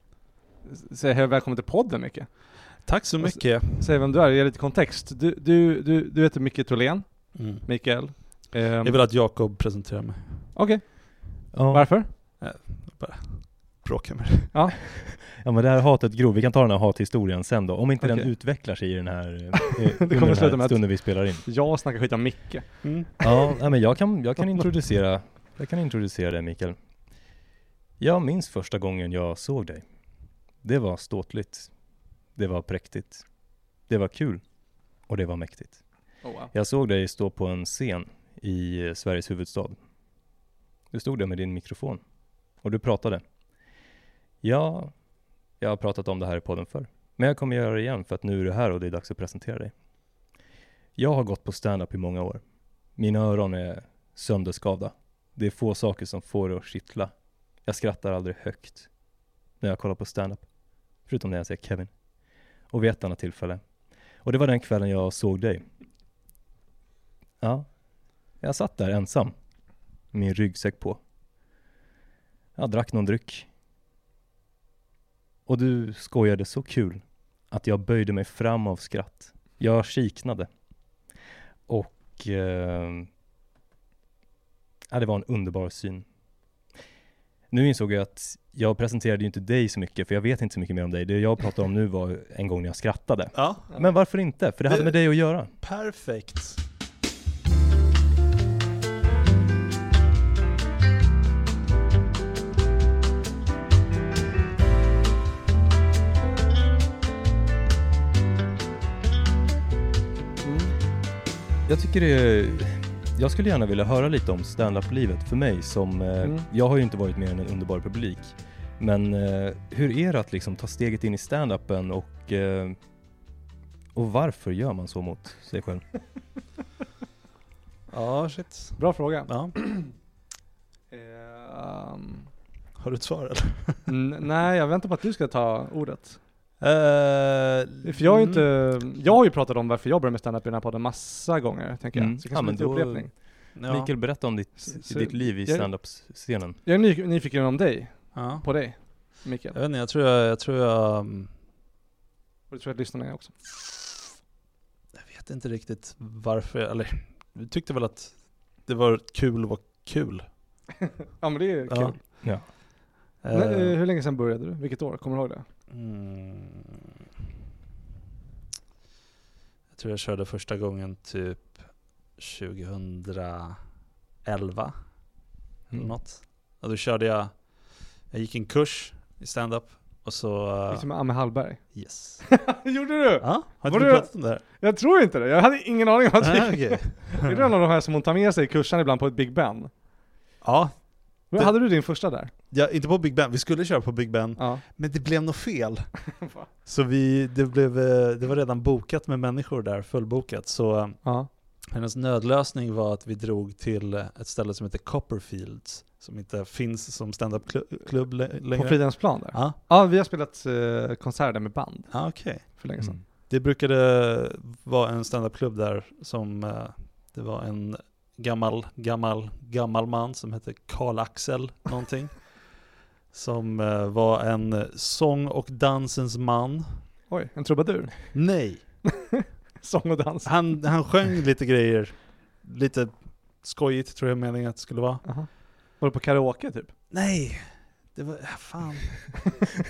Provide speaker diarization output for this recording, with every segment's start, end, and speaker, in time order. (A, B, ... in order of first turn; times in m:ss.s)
0:00.6-0:09.0 A
0:02.8-0:04.0 B
0:07.3-0:10.5 B
0:10.6-0:12.1 A
0:11.5-0:12.0 C
0:12.4-0:14.8 B
0:15.3-0:21.5 C
0:18.0-0:18.3 A
0:19.7-0:23.2 A
0:22.8-0:23.2 B
0:23.2-0:26.8 C
0:28.0-0:29.8 C
0:30.6-0:31.7 C
0:32.4-0:33.2 C
0:33.8-0:34.4 C
0:35.0-0:35.8 C
0:36.2-0:36.5 A
0:36.4-0:39.8 C
0:40.9-0:42.0 C
0:42.6-0:43.2 C
0:44.4-0:45.0 C
0:45.6-0:49.7 C
0:51.0-0:52.4 C
0:53.0-0:58.9 C
0:59.6-1:00.5 C
1:01.0-1:01.9 C
1:02.7-1:03.7 C
1:04.2-1:05.6 C
1:07.4-1:07.8 C
1:08.3-1:09.4 C
1:10.1-1:11.0 C
1:12.6-1:13.5 C
1:15.5-1:20.5 C
1:21.7-1:23.1 C
1:24.9-1:26.1 C
1:27.5-1:35.5 C
1:33.3-1:33.7 B
1:34.6-1:36.6 B
1:50.4-1:50.8 A
1:51.7-2:02.8 C
1:56.2-1:56.5 A
2:04.0-2:05.9 C
2:07.9-2:09.6 B
2:08.8-2:09.9 A
2:10.9-2:12.3 A
2:12.8-2:13.9 B
2:13.9-2:16.2 A
2:16.6-2:18.5 B
2:17.8-2:23.1 A
2:21.9-2:26.6 C
2:23.6-2:23.9 B
2:24.6-2:25.7 A
2:26.6-2:29.6 A
2:28.1-2:28.9 B
2:29.5-2:31.3 B
2:32.5-2:33.3 A
2:35.0-2:40.3 B
2:41.2-2:42.0 A
2:41.7-2:42.2 B
2:42.2-2:42.5 C
2:43.2-2:43.8 B
2:43.3-2:45.5 A
2:45.7-2:46.8 B
2:49.7-2:53.6 B
2:54.2-2:54.8 B
2:55.7-2:57.5 B
2:58.1-3:00.9 B
3:00.7-3:09.7 A
3:01.7-3:02.4 B
3:03.2-3:04.4 B
3:06.2-3:07.5 B
3:10.4-3:29.6 B
3:11.3-3:12.3 A
3:14.4-3:14.6 A
3:16.2-3:16.5 A
3:21.0-3:21.3 A
3:28.5-3:33.0 A
3:31.9-3:42.4 B
3:32.8-3:33.0 C
3:43.1-3:46.8 B
3:47.1-3:50.7 A
3:48.1-3:48.8 B
3:50.2-3:55.2 B
3:55.0-3:56.7 A
3:56.9-3:59.5 B